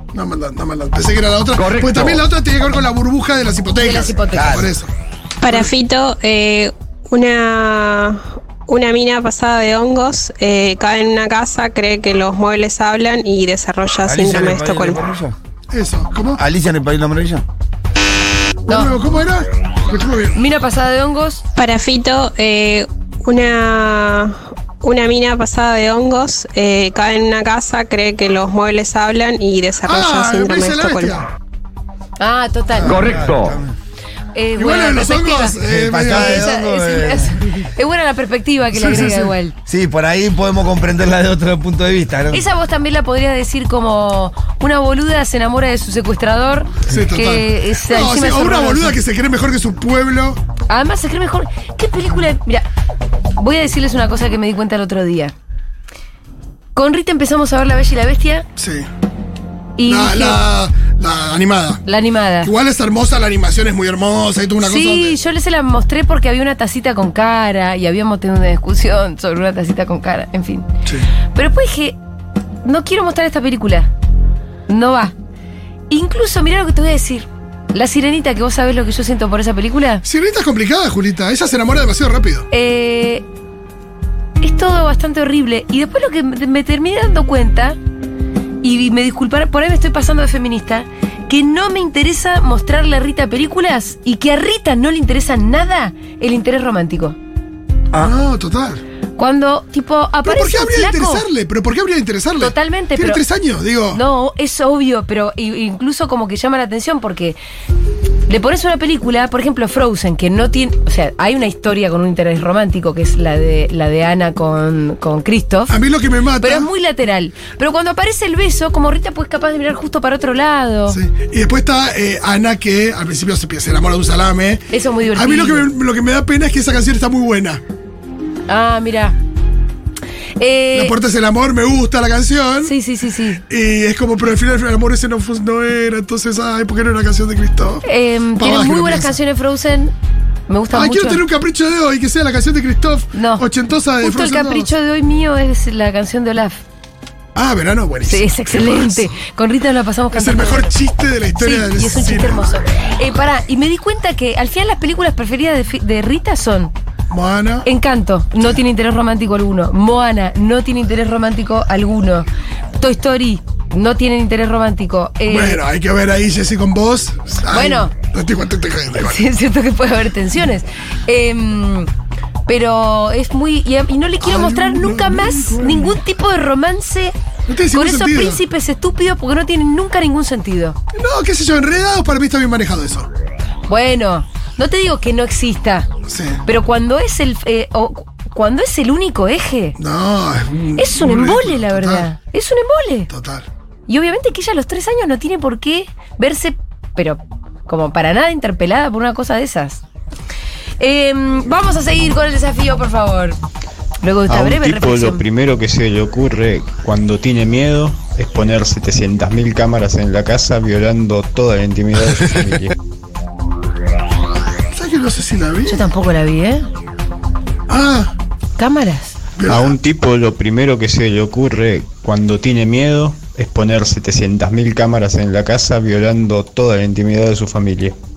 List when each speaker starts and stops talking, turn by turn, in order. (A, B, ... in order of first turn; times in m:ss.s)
0:00.1-0:04.9 A
0:03.8-0:04.7 B
0:04.3-0:04.7 C
0:05.4-0:15.0 D
0:14.0-0:15.4 C
0:15.7-0:16.4 A
0:16.4-0:17.4 C
0:18.7-0:20.4 A
0:18.7-0:19.0 B
0:20.4-0:21.4 B
0:21.6-0:31.2 D
0:29.9-0:31.3 A
0:32.2-0:33.1 B
0:32.8-0:33.8 C
0:34.4-0:35.6 B
0:34.6-0:36.5 A
0:35.6-0:37.4 C
0:36.1-0:39.6 B
0:38.7-0:39.4 A
0:39.7-0:42.4 C
0:42.3-0:49.0 B
0:46.9-0:50.4 A
0:50.7-0:52.7 B
0:53.4-0:55.3 B
0:56.8-0:58.5 B
0:58.6-0:58.9 A
0:59.8-1:00.4 B
0:59.9-1:01.8 A
1:01.9-1:02.5 B
1:02.4-1:05.2 A
1:04.6-1:10.7 B
1:11.3-1:12.0 B
1:12.6-1:13.9 B
1:14.7-1:15.1 B
1:15.9-1:20.0 B
1:20.0-1:22.5 A
1:22.5-1:23.2 B
1:24.4-1:27.8 B
1:28.6-1:37.2 B
1:38.0-1:38.8 A
1:39.2-1:41.2 B
1:40.2-1:44.0 A
1:42.4-1:43.2 B
1:43.9-1:47.4 B
1:48.3-1:55.7 B
1:55.7-1:56.7 A
1:56.4-2:01.0 B
2:00.9-2:07.6 A
2:04.7-2:05.7 B
2:08.5-2:09.2 B
2:10.4-2:10.9 B
2:10.7-2:12.7 A
2:12.6-2:13.4 B
2:13.5-2:17.8 A
2:17.8-2:19.9 B
2:18.4-2:19.2 A
2:20.5-2:21.2 B
2:20.7-2:24.7 A
2:23.1-2:23.4 B
2:24.0-2:26.6 B
2:27.4-2:29.1 A
2:28.0-2:30.7 B
2:30.1-2:32.5 A
2:31.4-2:36.7 B
2:37.1-2:37.7 A
2:37.6-2:42.3 B
2:42.8-2:45.6 B
2:45.3-2:49.2 A
2:47.5-2:47.9 B
2:49.0-2:51.9 B
2:52.5-2:57.2 B
2:54.2-2:56.0 A
2:57.5-2:58.4 A
2:57.7-3:00.8 B
3:00.9-3:03.1 A
3:03.7-3:05.9 B
3:06.1-3:06.4 A
3:06.4-3:09.8 B
3:09.8-3:12.1 A
3:10.8-3:13.1 B
3:13.1-3:13.5 A
3:13.9-3:19.8 B
3:20.8-3:23.4 B
3:24.0-3:25.2 B
3:24.3-3:32.7 E
3:34.7-3:35.8 A
3:35.7-3:36.7 B
3:37.7-3:38.1 A
3:38.6-3:39.2 B
3:39.4-3:39.8 A
3:39.5-3:47.9 E